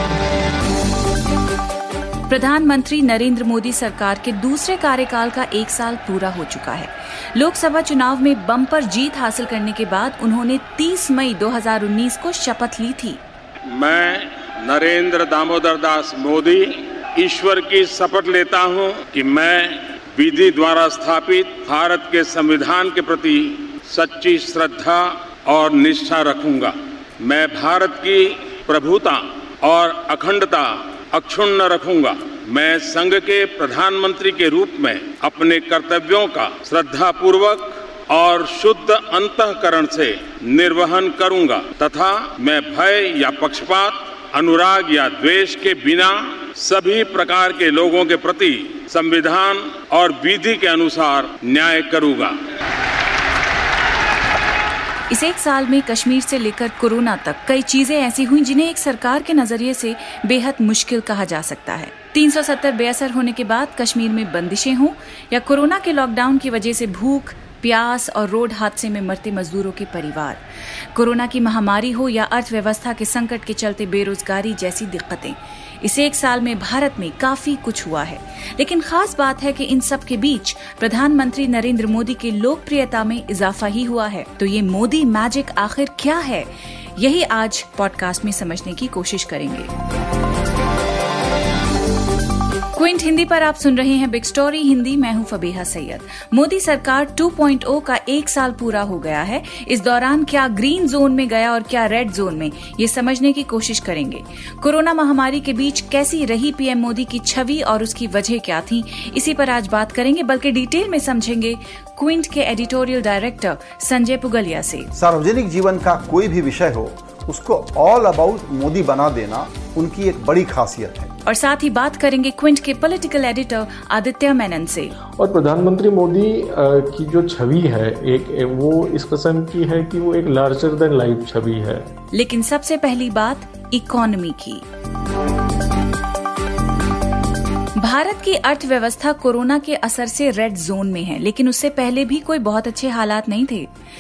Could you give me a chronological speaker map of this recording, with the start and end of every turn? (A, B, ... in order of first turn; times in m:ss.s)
0:02.3-0:13.2 A
0:13.7-0:52.3 B
0:55.1-1:10.4 A
1:10.9-1:29.7 A
1:32.7-1:54.9 A
1:54.9-2:01.1 C
2:01.2-2:05.0 A
2:05.2-2:11.9 D
2:12.1-2:14.6 A
2:17.8-2:23.7 A